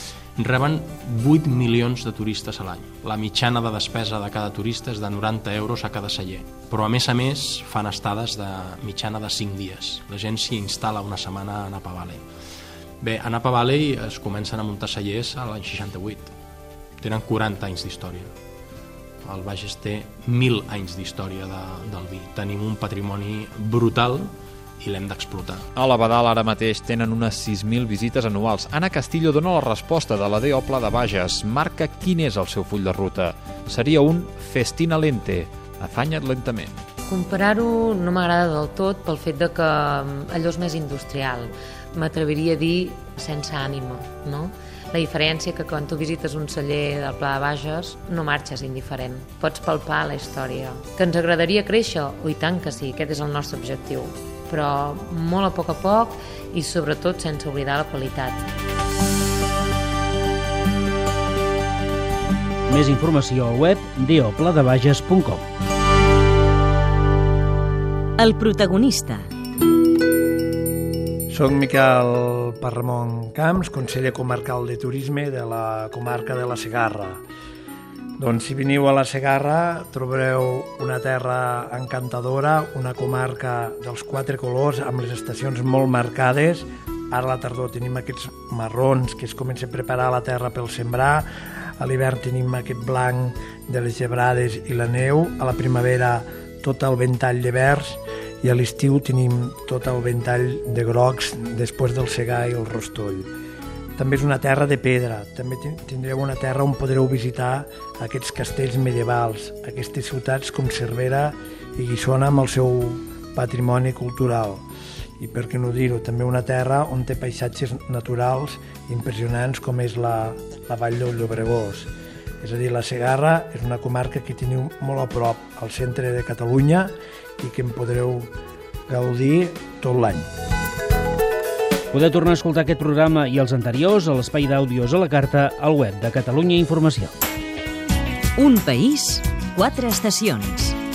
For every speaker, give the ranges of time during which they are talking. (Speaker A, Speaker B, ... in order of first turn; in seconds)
Speaker A: 0.4-12.2, 13.0-16.3, 17.0-18.3, 19.2-25.7
Speaker B: 25.8-36.8
Speaker C: 37.1-58.5
Speaker D: 62.7-65.5, 131.9-137.1
Speaker E: 68.2-69.3, 138.4-140.8
Speaker F: 71.3-77.2, 78.2-91.3, 91.8-103.3, 104.0-114.6, 115.2-121.9, 122.4-128.3, 128.9-130.3